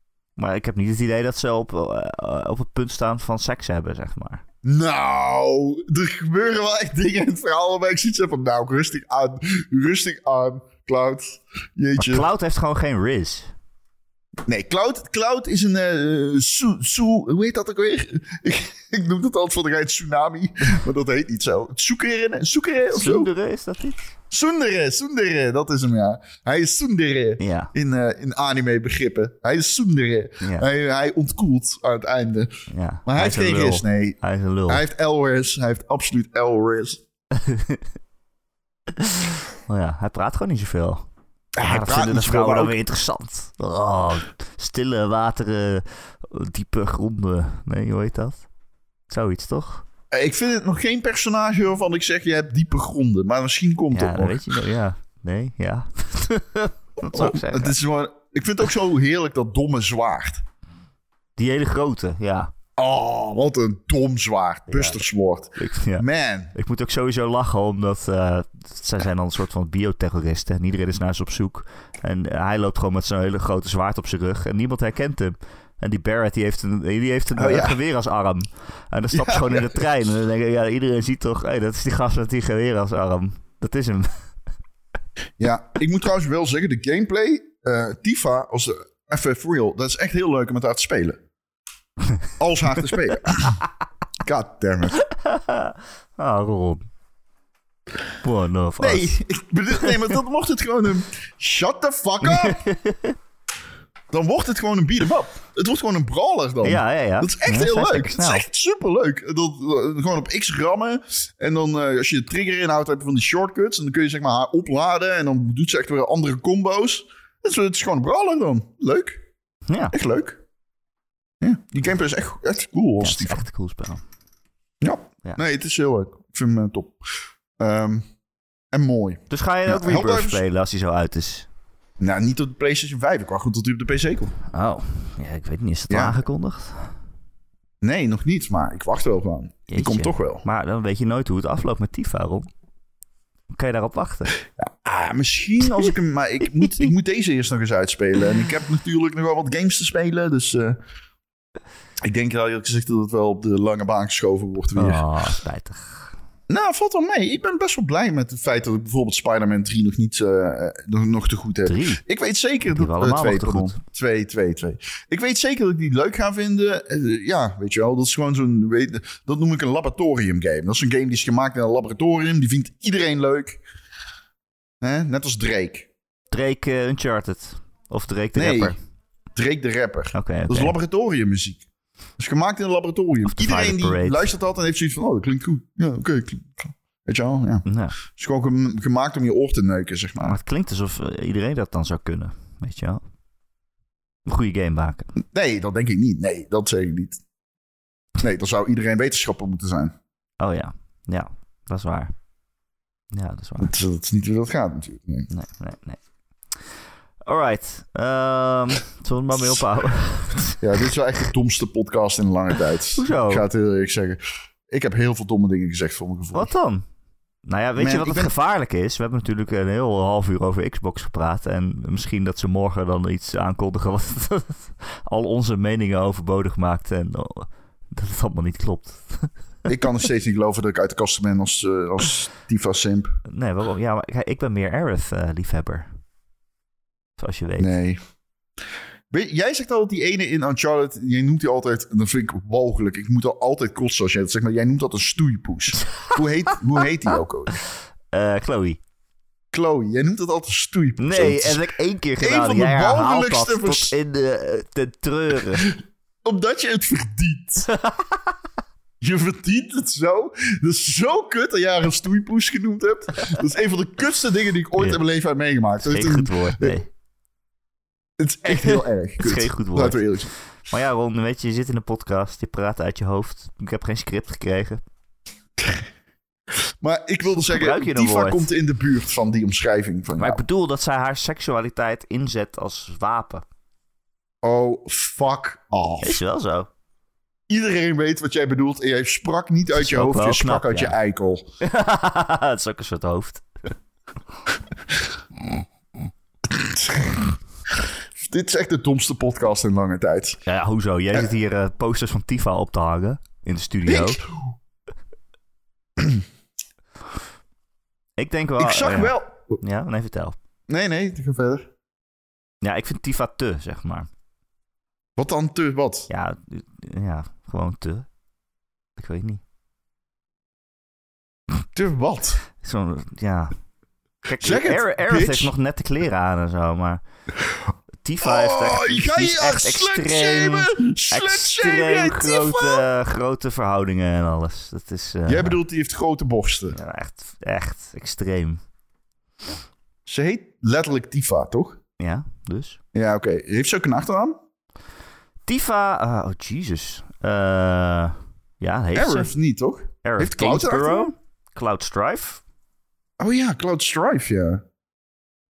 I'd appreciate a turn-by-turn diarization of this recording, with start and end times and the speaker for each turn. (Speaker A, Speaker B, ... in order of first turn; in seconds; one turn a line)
Speaker A: 0.4-4.4
Speaker B: 4.6-12.3
Speaker A: 12.0-13.5
Speaker B: 14.5-23.3
Speaker A: 22.9-24.0
Speaker B: 24.3-37.0
Speaker A: 27.4-27.7
Speaker A: 30.4-30.7
Speaker A: 32.7-34.8
Speaker A: 37.4-37.8
Speaker A: 39.0-41.1
Speaker B: 41.6-42.8
Speaker A: 41.6-48.5
Speaker A: 49.1-49.9
Speaker B: 50.1-54.6
Speaker A: 53.9-57.8
Speaker B: 57.0-60.4
Speaker A: 61.4-62.5
Speaker B: 62.8-66.5
Speaker A: 64.7-65.0
Speaker A: 65.6-84.3
Speaker B: 77.3-77.8
Speaker B: 79.1-79.8
Speaker B: 85.4-91.2
Speaker B: 92.4-93.6
Speaker B: 94.2-95.0
Speaker A: 95.1-96.8
Speaker A: 98.2-99.2
Speaker B: 98.8-102.6
Speaker A: 102.2-103.2
Speaker B: 104.1-119.2
Speaker A: 106.6-108.5
Speaker A: 119.7-120.0
Speaker B: 119.9-120.4
Speaker B: 121.4-123.5
Speaker A: 123.0-124.0
Speaker B: 124.8-128.1
Speaker B: 128.7-130.4
Speaker A: 129.3-131.5
Speaker B: 132.0-134.4
Speaker A: 134.5-137.0
Speaker B: 135.9-136.2
Speaker B: 137.8-140.4
Speaker A: 139.7-142.5
Speaker A: 143.5-144.3
Speaker B: 144.6-150.8
Speaker B: 152.0-155.1
Speaker A: 154.8-156.2
Speaker B: 156.5-173.6
Speaker A: 161.7-162.0
Speaker A: 162.7-163.8
Speaker B: 174.8-175.9
Speaker A: 176.3-178.8
Speaker B: 178.4-178.7
Speaker B: 179.3-181.7
Speaker A: 180.1-180.8
Speaker B: 182.2-190.4
Speaker A: 183.2-184.3
Speaker A: 187.7-187.9
Speaker A: 190.2-193.0
Speaker A: 194.3-195.1
Speaker B: 195.2-197.2
Speaker B: 198.2-199.9
Speaker A: 200.4-202.2
Speaker A: 203.1-203.7
Speaker B: 203.6-205.3
Speaker A: 205.3-206.0
Speaker A: 207.3-210.6
Speaker B: 210.6-216.5
Speaker A: 212.9-213.5
Speaker A: 216.3-216.8
Speaker A: 217.4-229.4
Speaker B: 217.8-218.3
Speaker B: 229.7-233.2
Speaker A: 233.3-235.9
Speaker A: 237.2-237.7
Speaker B: 237.6-238.0
Speaker B: 239.1-247.6
Speaker A: 248.1-248.8
Speaker B: 249.5-251.7
Speaker A: 251.0-255.7
Speaker B: 252.2-253.9
Speaker B: 256.2-257.7
Speaker A: 257.7-258.2
Speaker B: 259.0-266.8
Speaker A: 265.8-266.9
Speaker B: 268.2-270.3
Speaker A: 268.5-274.8
Speaker B: 275.6-275.9
Speaker B: 276.5-280.4
Speaker A: 277.3-278.5
Speaker A: 280.2-283.4
Speaker B: 284.4-286.2
Speaker A: 286.0-286.7
Speaker B: 287.5-291.4
Speaker A: 289.7-291.0
Speaker A: 291.6-293.5
Speaker B: 296.5-300.4
Speaker A: 300.5-304.2
Speaker B: 303.9-304.4
Speaker B: 306.0-306.2
Speaker A: 308.2-310.4
Speaker B: 308.6-309.6
Speaker B: 310.7-311.7
Speaker A: 312.6-314.1
Speaker B: 315.2-316.1
Speaker A: 316.1-318.1
Speaker A: 319.0-319.4
Speaker B: 321.8-322.4
Speaker A: 322.6-323.6
Speaker A: 324.2-327.0
Speaker B: 324.4-325.5
Speaker A: 328.0-335.6
Speaker B: 328.2-332.9
Speaker B: 335.3-336.8
Speaker A: 336.7-338.6
Speaker B: 340.1-341.8
Speaker A: 342.0-342.8
Speaker B: 342.9-344.4
Speaker A: 345.5-349.3
Speaker B: 348.9-351.1
Speaker A: 350.0-352.4
Speaker B: 353.2-354.6